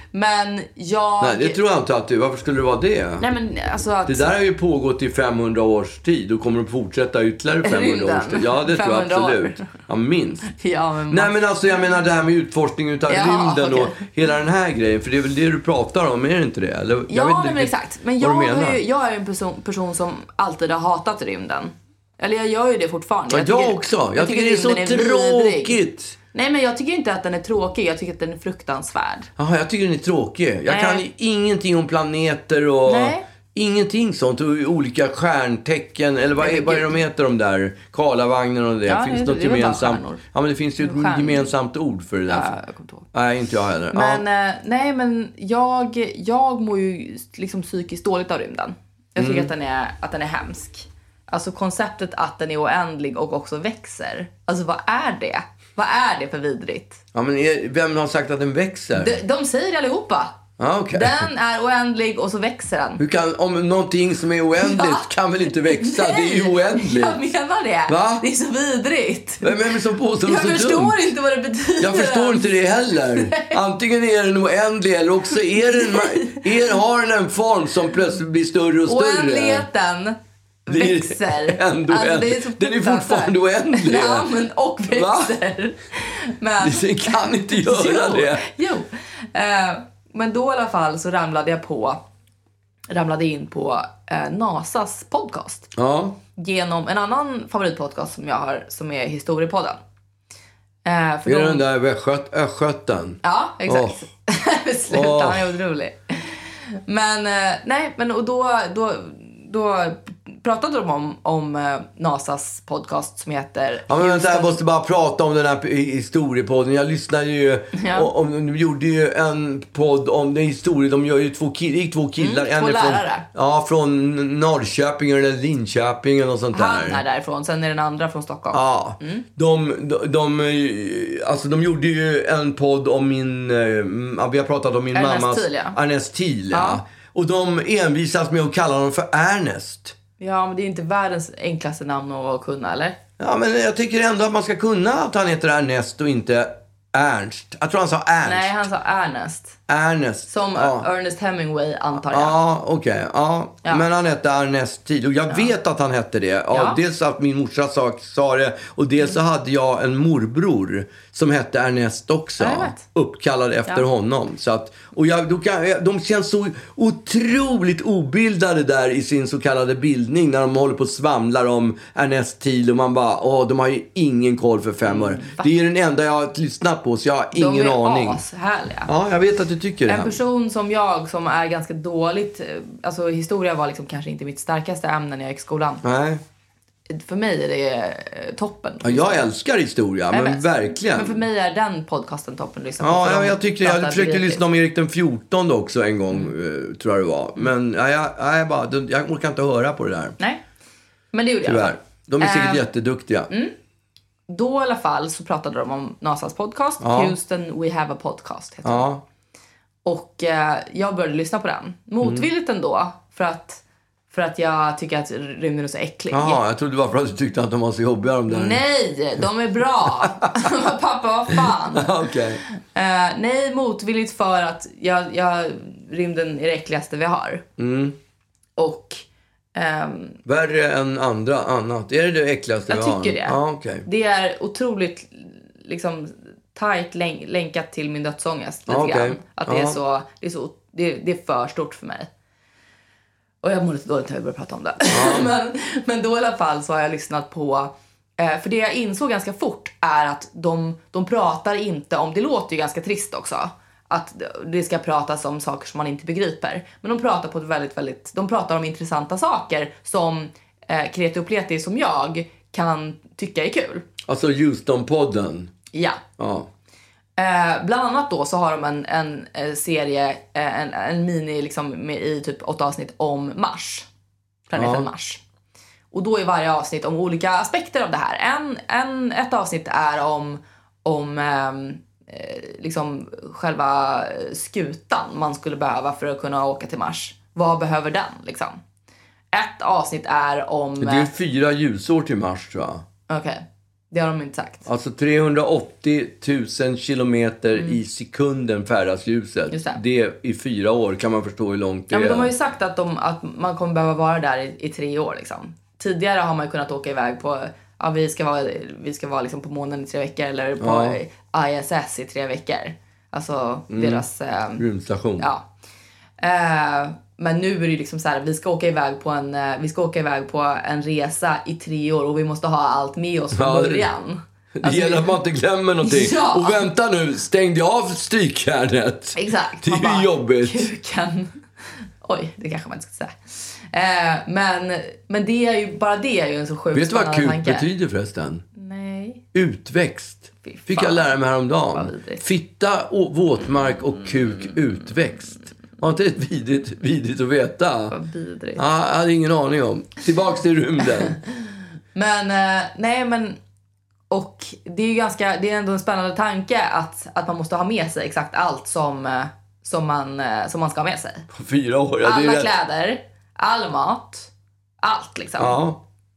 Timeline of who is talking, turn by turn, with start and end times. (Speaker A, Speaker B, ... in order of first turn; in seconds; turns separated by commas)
Speaker A: 0.1-1.6, Speaker B: 1.2-3.3, Speaker A: 3.2-4.4, Speaker B: 4.1-10.5, Speaker A: 7.6-9.7, Speaker A: 10.5-11.3, Speaker B: 11.1-18.8, Speaker A: 13.1-14.0, Speaker A: 17.1-25.8, Speaker B: 23.3-26.2, Speaker A: 26.3-29.3, Speaker B: 29.4-42.5, Speaker A: 30.7-31.0, Speaker A: 32.9-33.2, Speaker A: 36.4-37.0, Speaker A: 38.9-40.2, Speaker A: 40.8-41.5, Speaker A: 42.3-43.1, Speaker B: 43.1-44.2, Speaker A: 43.9-57.0, Speaker B: 49.2-49.5, Speaker B: 57.1-59.2, Speaker A: 59.0-60.4, Speaker B: 60.6-61.3, Speaker A: 60.9-63.0, Speaker B: 63.0-67.2, Speaker A: 64.6-65.1, Speaker A: 65.6-73.6, Speaker B: 67.9-68.3, Speaker B: 69.4-71.0, Speaker B: 71.8-79.7, Speaker A: 75.7-76.5, Speaker A: 78.9-80.2, Speaker A: 80.7-92.0, Speaker B: 80.7-84.3, Speaker B: 84.9-85.3, Speaker B: 86.6-88.5, Speaker A: 92.9-95.7, Speaker B: 95.7-96.2, Speaker A: 96.4-99.8, Speaker A: 100.8-101.7, Speaker B: 101.3-104.0, Speaker A: 103.2-114.6, Speaker B: 104.9-105.5, Speaker B: 113.9-127.0, Speaker A: 117.8-118.1, Speaker A: 122.2-123.3, Speaker A: 126.5-129.2, Speaker B: 128.5-140.0, Speaker A: 134.9-135.8, Speaker A: 136.5-136.8, Speaker A: 140.2-143.0, Speaker B: 143.2-148.6, Speaker A: 148.2-149.6, Speaker B: 149.7-150.9, Speaker A: 150.3-152.4, Speaker B: 152.0-178.2, Speaker A: 156.5-156.8, Speaker A: 162.4-162.8, Speaker A: 174.8-175.5, Speaker A: 177.3-178.9, Speaker B: 178.9-180.2, Speaker A: 179.9-185.8, Speaker B: 185.8-186.2, Speaker A: 186.9-189.3, Speaker B: 188.8-191.2, Speaker A: 190.1-194.4, Speaker B: 192.8-200.2, Speaker A: 201.1-202.7, Speaker B: 201.4-203.3, Speaker A: 203.3-203.5, Speaker A: 204.3-208.9, Speaker B: 206.8-207.2, Speaker B: 208.7-209.0, Speaker A: 209.8-216.4, Speaker B: 212.0-212.3, Speaker B: 216.1-218.6, Speaker A: 218.3-222.0, Speaker B: 219.8-220.2, Speaker B: 221.5-222.4, Speaker A: 222.6-227.4, Speaker B: 227.6-228.0, Speaker A: 228.6-229.0, Speaker A: 229.6-230.2, Speaker B: 230.2-233.9, Speaker A: 232.7-242.1, Speaker B: 238.7-239.8, Speaker A: 243.4-263.9, Speaker B: 244.9-245.3, Speaker B: 264.1-265.5, Speaker A: 265.7-266.0, Speaker B: 266.2-266.5, Speaker A: 267.2-273.9, Speaker A: 274.5-275.2, Speaker B: 274.6-274.9, Speaker A: 275.9-288.6, Speaker A: 289.3-291.1, Speaker B: 290.8-292.9, Speaker A: 293.1-294.7, Speaker B: 294.7-302.3, Speaker A: 299.5-299.8, Speaker A: 301.9-314.6, Speaker B: 310.6-311.0, Speaker B: 313.7-314.1, Speaker B: 314.6-315.3, Speaker A: 315.2-315.5, Speaker A: 316.2-325.2, Speaker B: 323.3-323.9, Speaker B: 324.6-330.7, Speaker A: 325.8-326.7, Speaker A: 329.2-331.4, Speaker A: 332.0-337.7, Speaker B: 336.7-338.4, Speaker A: 338.6-339.2, Speaker B: 339.3-347.9, Speaker A: 340.4-342.2, Speaker A: 347.9-348.6, Speaker B: 348.6-351.2, Speaker A: 351.9-353.4, Speaker A: 354.1-361.3, Speaker B: 361.3-362.5, Speaker A: 362.0-364.3, Speaker A: 364.8-365.6, Speaker B: 365.4-365.8